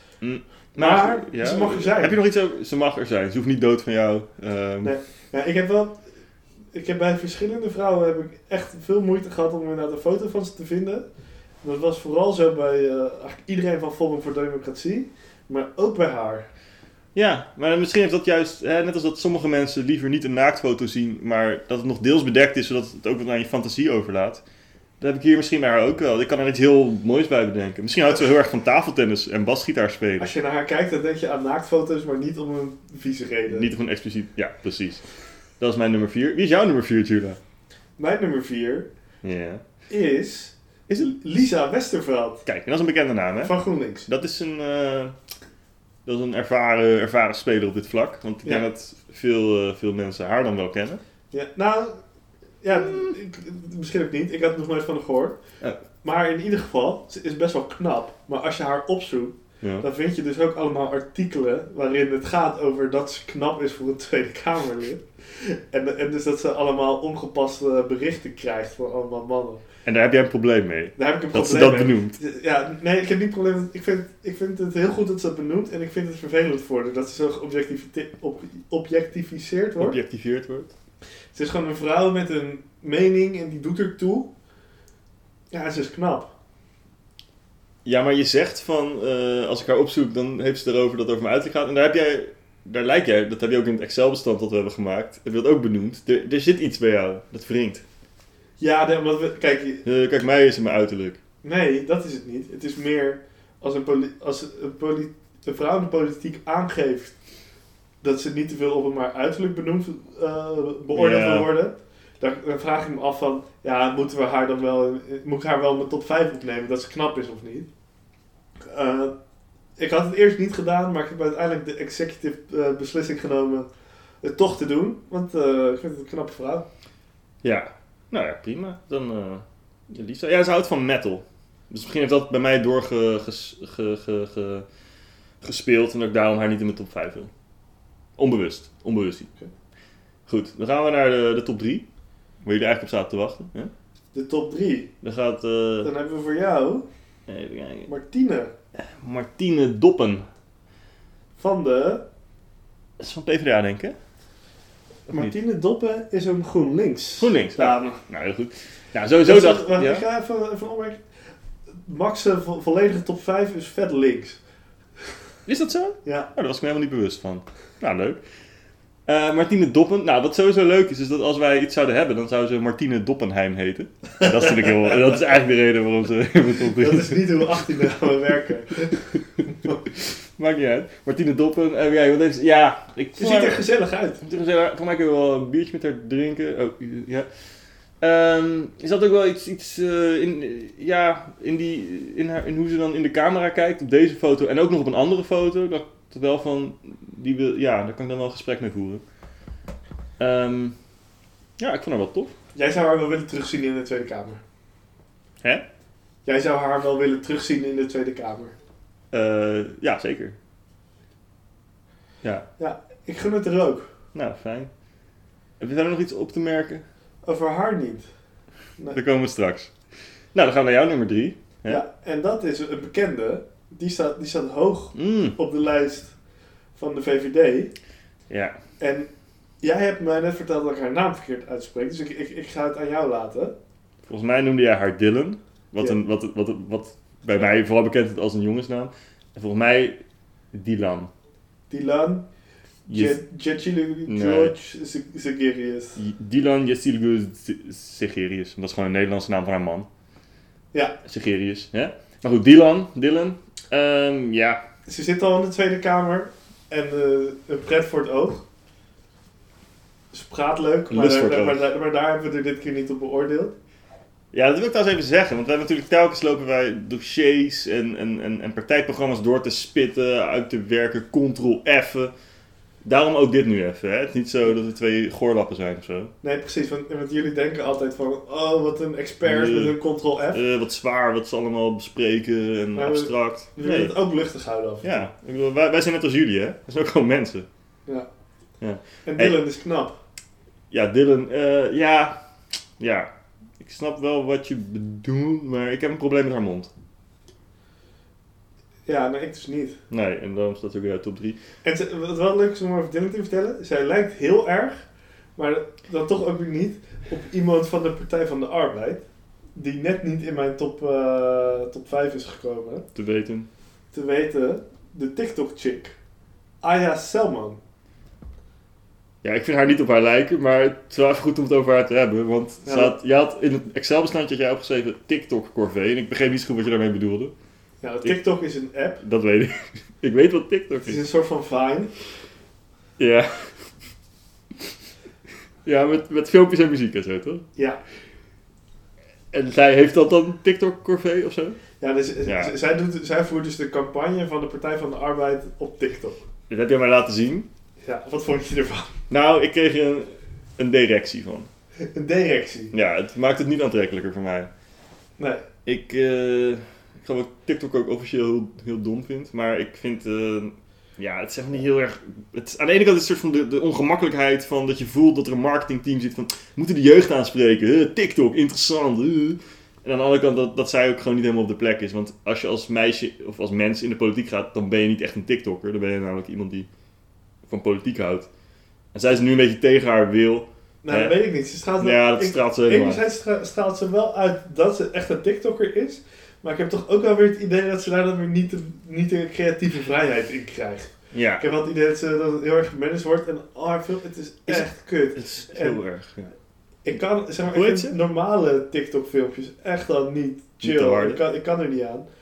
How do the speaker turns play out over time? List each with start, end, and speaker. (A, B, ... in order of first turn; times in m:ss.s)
0:00.2-0:04.9 A
0:00.8-0:02.2 B
0:04.8-0:06.0 B
0:06.7-0:11.1 B
0:11.6-0:16.5 B
0:17.1-0:24.4 A
0:25.0-0:30.3 A
0:30.2-0:33.7 B
0:33.5-0:35.0 A
0:35.6-0:37.4 A
0:38.0-0:38.9 B
0:39.2-0:39.6 A
0:39.9-0:42.4 B
0:42.4-0:43.5 A
0:43.4-0:44.1 B
0:44.0-0:45.1 A
0:46.0-0:51.0 A
0:51.3-0:52.0 B
0:52.6-0:55.4 B
0:56.0-1:09.6 B
1:09.8-1:12.2 A
1:11.0-1:20.0 B
1:19.8-1:20.7 A
1:21.3-1:24.3 B
1:25.5-1:26.3 B
1:27.8-1:37.8 A
1:38.6-1:39.8 B
1:39.8-1:41.2 A
1:41.4-1:47.1 B
1:48.0-1:57.7 B
1:50.9-1:51.5 A
1:58.7-1:59.1 B
1:59.8-2:03.7 B
2:04.2-2:06.7 B
2:07.4-2:14.6 A
2:15.4-2:17.3 A
2:18.2-2:19.3 A
2:20.3-2:21.8 A
2:22.4-2:23.7 A
2:24.1-2:24.9 B
2:25.0-2:25.9 A
2:25.8-2:26.8 B
2:27.3-2:27.9 A
2:27.8-2:28.5 B
2:28.8-2:30.2 A
2:31.4-2:32.0 B
2:33.0-2:34.0 A
2:35.1-2:38.0 B
2:37.2-2:40.0 A
2:39.2-2:41.0 B
2:41.8-2:44.4 B
2:45.4-2:48.2 A
2:46.0-2:46.3 B
2:49.0-2:57.3 A
2:56.7-2:59.8 B
3:00.0-3:03.6 A
3:03.2-3:04.2 B
3:04.2-3:07.3 A
3:08.0-3:19.0 A
3:20.2-3:20.8 A
3:21.6-3:22.3 A
3:22.5-3:24.4 B
3:26.2-3:28.5 B
3:29.1-3:30.4 A
3:32.6-3:33.9 B
3:34.1-3:34.7 A
3:35.6-3:36.8 A
3:37.2-3:38.1 B
3:38.9-3:39.7 A
3:40.3-3:41.8 A
3:41.6-3:46.1 B
3:44.9-3:45.4 A
3:46.7-3:47.7 B
3:48.3-3:48.6 A
3:48.8-3:49.1 B
3:49.6-3:53.5 B
3:54.0-4:00.0 A
4:00.5-4:01.1 A
4:01.7-4:02.2 B
4:02.9-4:03.2 A
4:02.9-4:06.0 B
4:04.1-4:04.5 A
4:06.0-4:09.9 A
4:11.0-4:14.6 A
4:14.9-4:18.4 B
4:20.1-4:23.5 B
4:20.9-4:21.7 A
4:24.3-4:32.1 A
4:32.8-4:36.1 A
4:36.2-4:40.4 B
4:39.2-4:39.8 A
4:40.3-4:43.9 A
4:42.8-4:45.1 B
4:44.8-4:47.4 A
4:48.6-4:49.4 A
4:49.0-4:50.0 B
4:50.7-4:52.2 A
4:52.8-4:53.1 A
4:53.6-4:56.7 A
4:58.8-4:59.8 B
4:59.9-5:01.4 A
5:01.6-5:04.8 B
5:05.4-5:09.0 B
5:09.5-5:12.8 B
5:12.9-5:13.5 A
5:13.9-5:15.9 B
5:16.6-5:17.6 B
5:19.2-5:27.3 A
5:22.6-5:23.0 B
5:27.8-5:29.0 B
5:29.0-5:31.0 A
5:30.8-5:31.9 B
5:33.0-5:33.7 A
5:35.6-5:37.4 A
5:39.3-5:41.6 A
5:41.8-5:46.2 B
5:42.2-5:42.5 A
5:46.5-5:47.5 A
5:47.8-5:48.9 B
5:49.1-5:51.5 A
5:51.9-5:52.7 B
5:52.7-5:54.5 A
5:55.2-5:55.4 B
5:55.6-6:16.7 A
6:17.5-6:18.3 A
6:18.9-6:21.2 A
6:20.8-6:35.8 B
6:21.8-6:23.0 A
6:31.1-6:31.4 A
6:34.5-6:36.3 A
6:36.8-6:42.0 B
6:37.5-6:37.9 A
6:40.6-6:41.2 A